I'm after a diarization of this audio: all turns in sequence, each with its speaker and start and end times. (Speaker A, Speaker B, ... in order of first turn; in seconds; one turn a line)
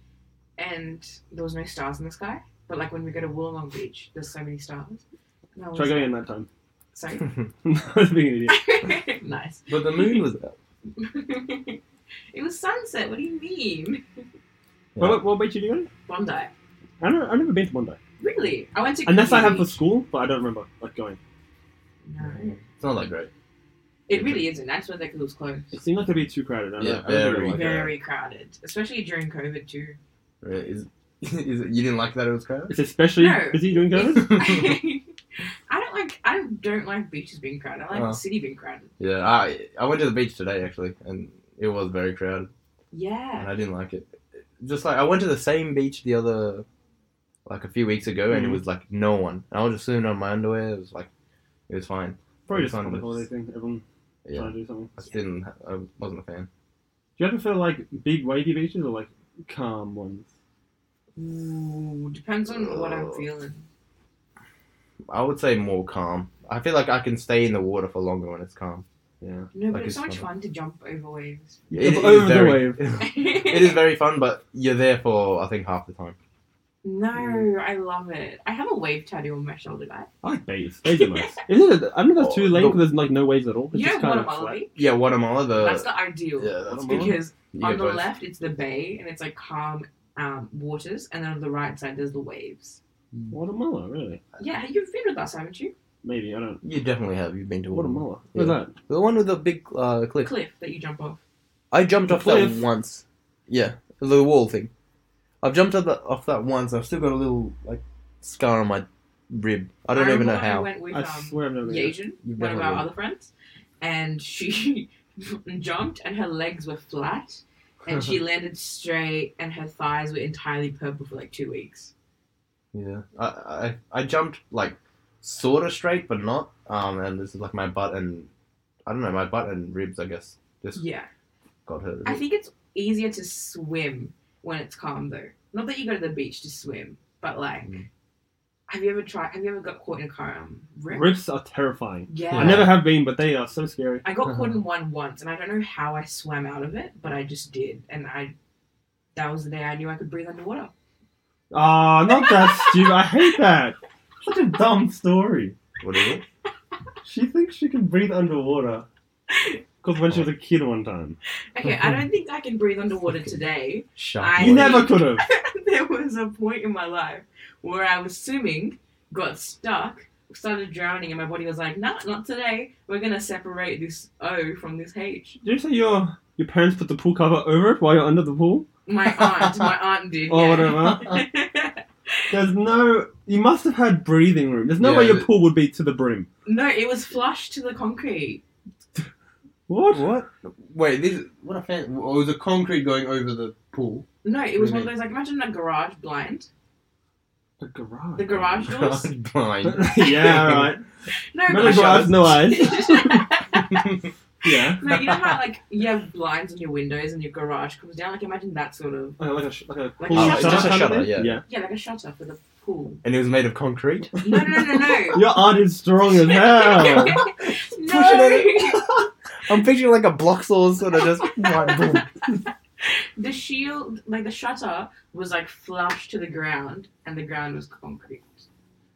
Speaker A: 0.6-5.0
Speaker A: 5.5-6.1
Speaker B: 5.8-6.5
Speaker A: 6.9-7.3
Speaker B: 7.7-8.6
Speaker A: 8.5-10.3
Speaker C: 9.7-10.6
Speaker A: 11.0-11.8
Speaker A: 12.3-14.0
Speaker C: 14.9-15.2
Speaker B: 15.0-15.9
Speaker A: 16.1-16.5
Speaker B: 17.0-18.0
Speaker A: 18.2-19.8
Speaker B: 19.1-21.2
Speaker A: 22.0-22.6
Speaker C: 22.2-23.3
Speaker A: 24.1-25.8
Speaker C: 24.1-24.4
Speaker B: 25.7-27.7
Speaker C: 26.8-27.9
Speaker A: 27.5-30.0
Speaker C: 30.4-32.7
Speaker B: 32.7-34.4
Speaker A: 33.2-35.1
Speaker C: 34.0-34.7
Speaker A: 35.7-38.9
Speaker C: 37.9-38.2
Speaker C: 39.0-42.5
Speaker A: 42.9-43.5
Speaker C: 43.4-46.7
Speaker C: 47.5-51.1
Speaker B: 48.3-48.6
Speaker C: 51.7-53.3
Speaker B: 52.5-54.9
Speaker C: 54.3-56.5
Speaker B: 57.2-60.3
Speaker A: 61.2-63.7
Speaker C: 62.5-63.2
Speaker C: 65.1-68.8
Speaker B: 69.2-69.5
Speaker A: 69.5-71.7
Speaker C: 69.7-70.2
Speaker B: 71.7-72.8
Speaker C: 71.7-76.2
Speaker A: 73.0-73.8
Speaker A: 76.8-80.1
Speaker B: 80.2-84.6
Speaker A: 81.0-81.3
Speaker C: 82.2-82.8
Speaker A: 83.7-84.8
Speaker C: 84.8-88.1
Speaker A: 85.5-92.8
Speaker B: 86.7-87.2
Speaker B: 93.3-94.2
Speaker A: 94.4-95.7
Speaker B: 96.0-96.6
Speaker C: 96.6-100.3
Speaker B: 97.7-98.8
Speaker A: 100.2-101.2
Speaker C: 101.7-104.7
Speaker B: 102.1-102.7
Speaker C: 105.4-110.7
Speaker A: 109.9-121.9
Speaker B: 110.9-112.0
Speaker C: 112.2-112.9
Speaker C: 122.7-128.3
Speaker C: 128.9-130.8
Speaker A: 130.8-131.1
Speaker C: 131.7-132.2
Speaker A: 132.1-137.7
Speaker A: 138.7-141.1
Speaker B: 140.9-144.3
Speaker A: 142.1-142.7
Speaker C: 142.3-142.8
Speaker A: 144.0-148.3
Speaker A: 149.2-150.7
Speaker B: 151.5-155.6
Speaker A: 152.1-153.3
Speaker C: 155.8-156.2
Speaker B: 157.0-158.9
Speaker A: 159.3-159.6
Speaker B: 159.8-161.2
Speaker A: 161.5-175.4
Speaker C: 164.0-164.9
Speaker B: 164.4-165.2
Speaker B: 175.4-178.7
Speaker A: 178.9-182.3
Speaker C: 179.2-179.7
Speaker B: 180.3-181.1
Speaker B: 182.3-186.3
Speaker C: 184.8-185.3
Speaker A: 186.5-188.4
Speaker B: 189.7-190.2
Speaker C: 189.9-194.1
Speaker A: 194.2-196.5
Speaker C: 194.6-194.9
Speaker B: 197.6-198.3
Speaker A: 198.2-199.2
Speaker C: 198.3-200.8
Speaker B: 199.6-200.8
Speaker A: 201.1-203.9
Speaker B: 201.5-203.2
Speaker C: 201.5-202.4
Speaker C: 203.6-204.1
Speaker B: 204.4-204.9
Speaker A: 204.7-209.2
Speaker B: 209.2-211.4
Speaker A: 210.0-213.0
Speaker C: 210.2-211.3
Speaker C: 213.0-214.2
Speaker A: 214.2-215.3
Speaker B: 215.1-217.2
Speaker A: 216.2-218.9
Speaker C: 217.0-218.8
Speaker C: 219.4-222.1
Speaker A: 221.4-222.1
Speaker A: 222.8-228.5